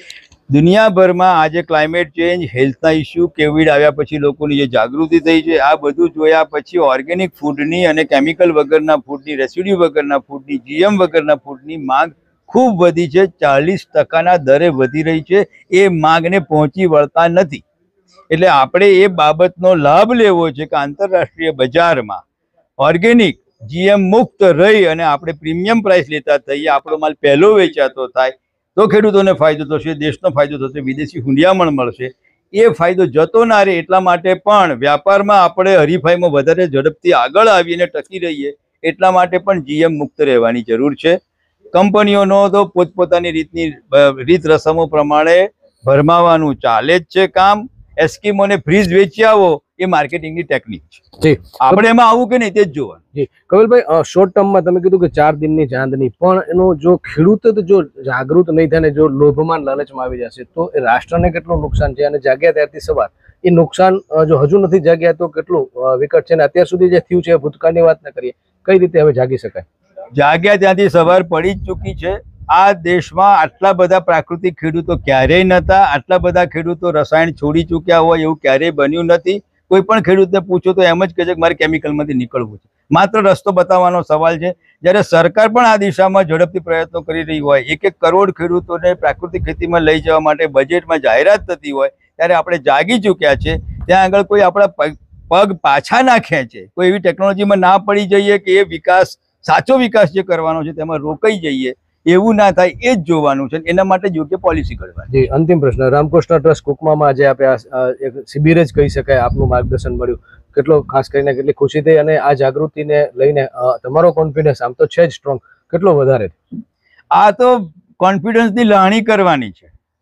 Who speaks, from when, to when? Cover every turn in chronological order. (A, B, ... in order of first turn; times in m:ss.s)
0:00.5-0:17.6 A
0:18.3-0:22.2 A
0:22.8-0:41.2 A
0:41.7-0:51.0 A
0:51.2-0:51.8 B
0:51.6-0:53.0 A
0:53.1-1:09.6 B
1:10.1-1:45.1 A
1:45.1-1:56.4 B
1:57.1-1:59.7 A